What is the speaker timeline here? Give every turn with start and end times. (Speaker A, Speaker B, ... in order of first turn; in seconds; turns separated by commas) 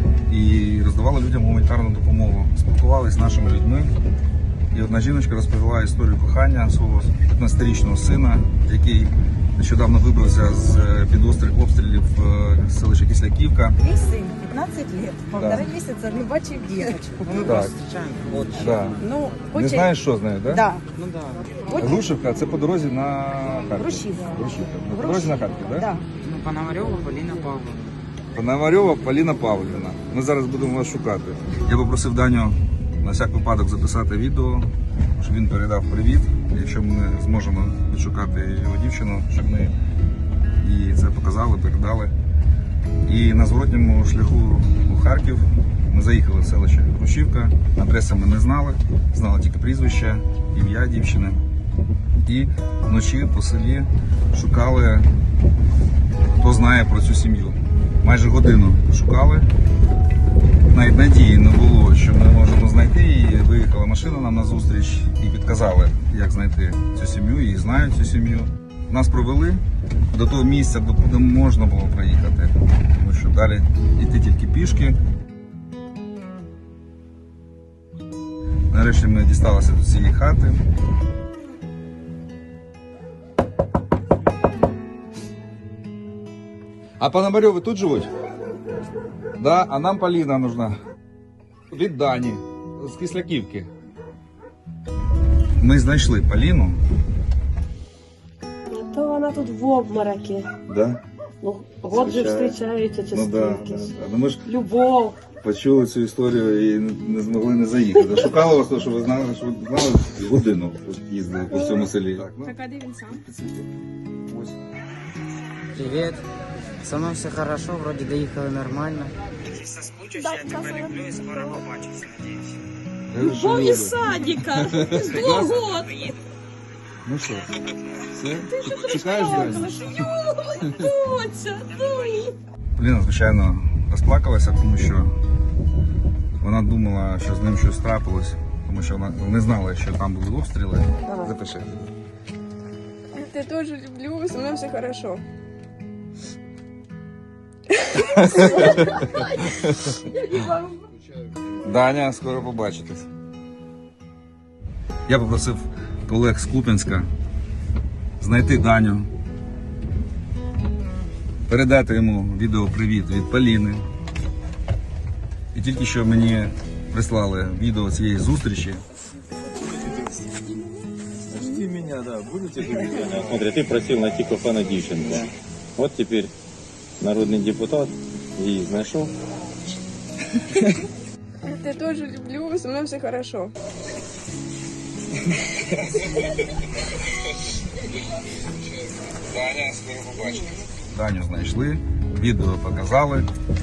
Speaker A: 0.3-3.9, Speaker A: 4.7-13.8, Speaker B: 13.8-17.5, Speaker A: 15.3-15.7, Speaker C: 17.3-19.0, Speaker A: 17.4-17.7, Speaker A: 18.6-20.6, Speaker B: 19.0-19.9, Speaker B: 20.5-20.8, Speaker C: 21.0-21.6, Speaker B: 21.7-22.1, Speaker A: 21.8-25.9, Speaker B: 23.8-26.0, Speaker C: 26.2-27.9, Speaker A: 28.3-39.8, Speaker A: 40.6-42.1, Speaker A: 43.0-51.4, Speaker A: 52.2-55.1, Speaker A: 56.3-59.5, Speaker A: 60.7-75.0, Speaker A: 78.7-80.6, Speaker A: 87.0-88.1, Speaker A: 89.4-90.8, Speaker A: 91.7-93.7, Speaker A: 95.6-96.8, Speaker D: 98.7-100.5, Speaker A: 100.7-101.0, Speaker D: 101.4-103.9, Speaker A: 101.9-102.6, Speaker A: 103.1-104.5, Speaker D: 104.5-105.2, Speaker A: 105.4-113.6, Speaker E: 111.5-111.9, Speaker E: 112.4-113.2, Speaker A: 114.3-114.6, Speaker C: 115.7-116.3, Speaker C: 116.8-120.0, Speaker E: 120.0-121.7, Speaker C: 120.8-122.5, Speaker A: 123.1-125.6, Speaker E: 123.2-126.1, Speaker A: 127.0-127.5, Speaker A: 128.1-130.0, Speaker E: 128.4-132.3, Speaker A: 132.8-135.1, Speaker A: 136.4-141.9, Speaker E: 143.2-145.2, Speaker A: 148.0-150.0, Speaker E: 148.2-149.2, Speaker E: 150.3-150.7, Speaker A: 151.6-153.1, Speaker A: 155.1-157.1, Speaker A: 158.2-159.1, Speaker A: 161.5-163.8, Speaker A: 165.5-168.8, Speaker F: 171.3-176.3, Speaker F: 177.0-179.1, Speaker E: 181.4-183.5, Speaker A: 189.0-193.3